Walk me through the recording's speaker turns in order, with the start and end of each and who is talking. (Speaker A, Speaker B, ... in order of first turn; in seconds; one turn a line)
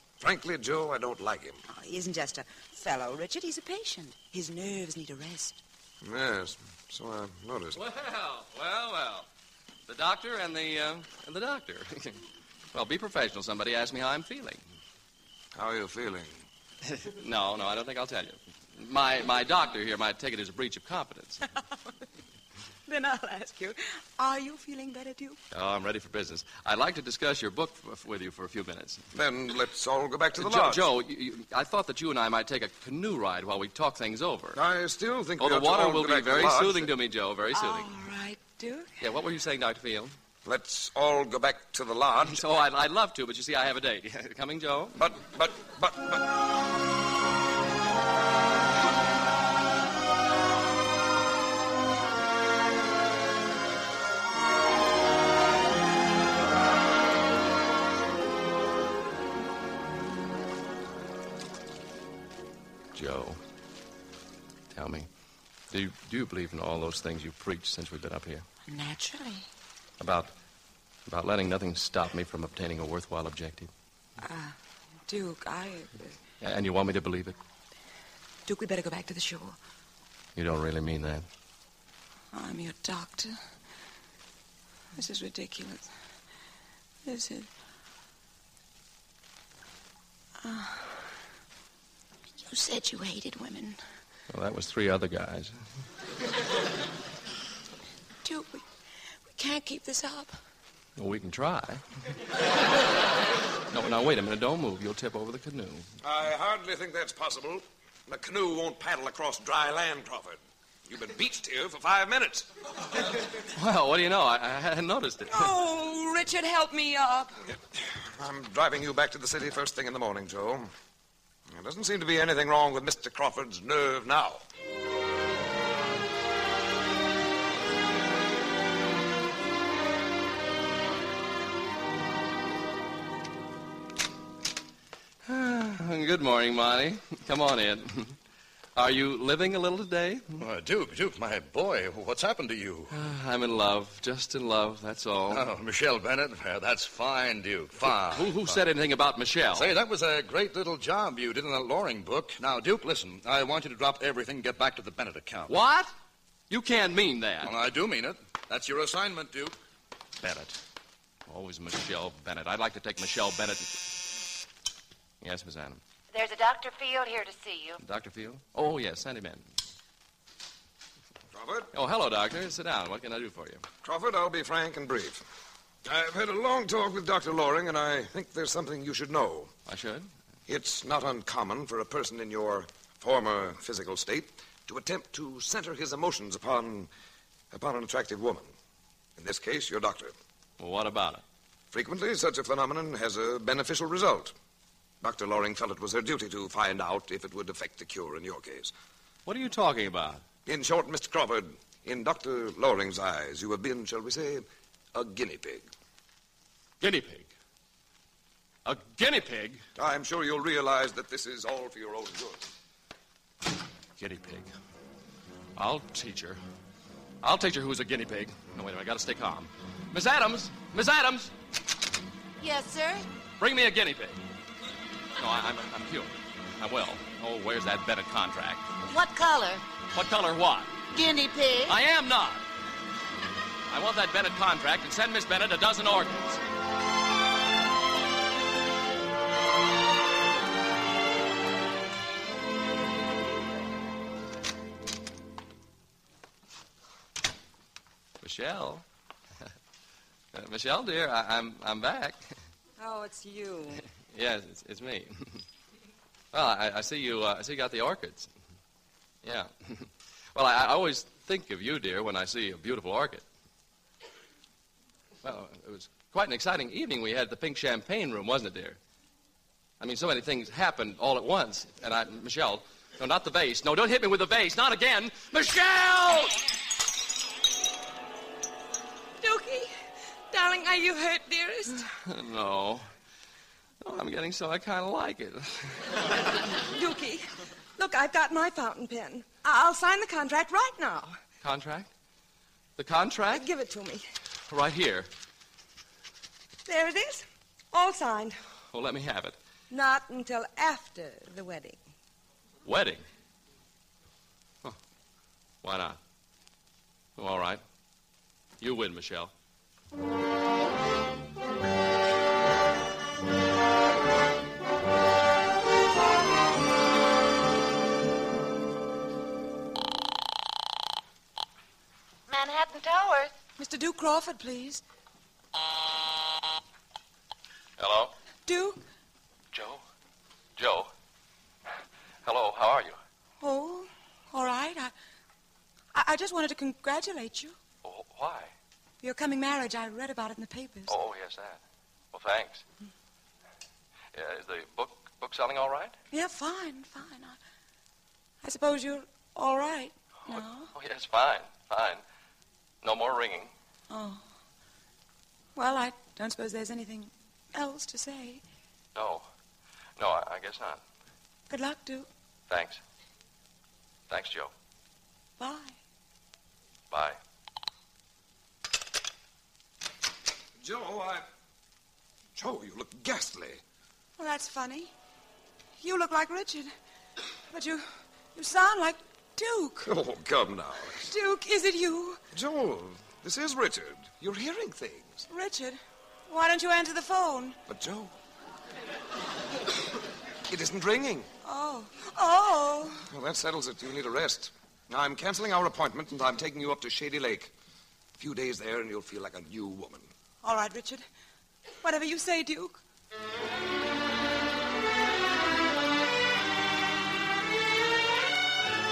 Speaker A: 0.2-1.6
Speaker B: 1.7-5.6
Speaker A: 6.0-7.8
Speaker C: 7.8-9.3
Speaker C: 9.9-12.2
Speaker C: 12.7-14.6
Speaker A: 15.6-16.4
Speaker C: 16.9-21.4
Speaker B: 22.9-25.4
Speaker C: 25.5-29.1
Speaker A: 29.1-30.9
Speaker C: 30.4-34.6
Speaker A: 34.5-36.9
Speaker C: 35.4-37.9
Speaker B: 37.5-38.9
Speaker C: 39.0-40.1
Speaker A: 40.5-42.4
Speaker C: 42.2-45.0
Speaker A: 45.0-46.2
Speaker C: 62.9-63.4
Speaker C: 64.7-65.1
Speaker C: 65.7-68.5
Speaker B: 68.7-69.5
Speaker C: 70.0-70.3
Speaker C: 71.1-73.7
Speaker B: 74.2-76.2
Speaker C: 76.4-77.4
Speaker B: 78.5-79.6
Speaker C: 80.4-81.3
Speaker B: 82.3-83.4
Speaker B: 85.0-85.9
Speaker B: 87.0-87.5
Speaker B: 90.4-91.0
Speaker B: 92.4-93.8
Speaker C: 94.3-95.6
Speaker B: 98.2-98.7
Speaker B: 99.3-100.4
Speaker C: 101.0-101.8
Speaker C: 103.7-105.9
Speaker A: 106.0-112.5
Speaker C: 113.5-115.5
Speaker B: 115.3-117.4
Speaker A: 117.8-120.7
Speaker A: 121.5-124.4
Speaker C: 135.3-138.2
Speaker C: 138.8-140.4
Speaker D: 140.4-142.9
Speaker C: 142.9-145.5
Speaker D: 145.3-148.6
Speaker C: 148.0-149.7
Speaker D: 149.5-155.5
Speaker C: 155.5-155.9
Speaker C: 156.5-157.5
Speaker D: 157.4-159.6
Speaker C: 160.2-160.6
Speaker C: 161.3-163.8
Speaker C: 165.2-165.8
Speaker E: 166.1-167.8
Speaker C: 167.8-169.5
Speaker A: 171.3-171.7
Speaker C: 171.7-173.7
Speaker A: 173.8-175.2
Speaker A: 175.8-179.5
Speaker C: 179.7-180.1
Speaker A: 180.5-186.9
Speaker A: 187.5-188.5
Speaker A: 189.2-190.2
Speaker C: 190.6-191.2
Speaker A: 191.7-194.3
Speaker A: 195.0-198.7
Speaker C: 199.3-200.2
Speaker A: 200.5-205.7
Speaker C: 206.8-207.3
Speaker C: 208.7-209.6
Speaker A: 209.8-212.5
Speaker C: 214.0-214.5
Speaker C: 215.6-216.4
Speaker C: 217.2-221.3
Speaker E: 222.4-223.1
Speaker C: 223.4-224.2
Speaker C: 225.2-228.7
Speaker E: 228.8-229.6
Speaker C: 229.9-230.8
Speaker E: 230.9-231.8
Speaker C: 231.7-232.4
Speaker C: 233.7-236.4
Speaker C: 248.2-248.8
Speaker C: 250.3-252.3
Speaker F: 252.8-253.8
Speaker C: 254.0-255.4
Speaker C: 256.3-258.3
Speaker C: 259.2-263.3
Speaker C: 265.2-268.8
Speaker C: 269.8-276.3
Speaker F: 279.2-279.7
Speaker F: 280.3-281.8
Speaker C: 282.0-282.9
Speaker C: 283.8-285.9
Speaker F: 286.7-291.2
Speaker C: 291.4-291.9
Speaker C: 292.8-293.5
Speaker F: 293.3-294.1
Speaker C: 294.5-295.1
Speaker F: 296.7-298.4
Speaker C: 298.7-299.4
Speaker F: 299.7-301.8
Speaker C: 302.6-303.1
Speaker C: 305.6-306.0
Speaker C: 307.2-307.6
Speaker C: 308.6-309.3
Speaker E: 322.3-323.3
Speaker B: 323.6-324.8
Speaker C: 327.8-328.1
Speaker B: 328.5-328.8
Speaker C: 329.5-329.8
Speaker C: 330.6-330.9
Speaker C: 332.2-333.0
Speaker B: 333.4-334.9
Speaker B: 335.9-337.6
Speaker C: 337.8-338.5
Speaker B: 339.0-340.9
Speaker C: 340.9-341.6
Speaker C: 342.1-342.6
Speaker C: 344.1-346.0
Speaker B: 346.1-347.4
Speaker B: 348.4-350.7
Speaker C: 350.3-352.0
Speaker C: 352.8-353.5
Speaker B: 353.9-354.2
Speaker B: 355.6-358.4
Speaker C: 358.9-359.3
Speaker C: 360.0-360.8
Speaker B: 361.5-362.1
Speaker C: 362.5-362.8
Speaker C: 364.1-364.5
Speaker B: 365.4-365.8
Speaker C: 366.9-367.2
Speaker A: 370.6-371.3
Speaker A: 372.4-373.6
Speaker B: 374.2-374.9
Speaker B: 375.8-376.7
Speaker B: 377.5-379.9
Speaker A: 379.9-381.0
Speaker B: 381.0-382.2
Speaker A: 382.3-385.2
Speaker B: 385.3-387.6
Speaker A: 387.7-388.1
Speaker A: 390.5-391.3
Speaker B: 391.4-393.1
Speaker A: 393.1-397.5
Speaker A: 398.2-400.1
Speaker B: 400.4-401.1
Speaker B: 401.8-402.8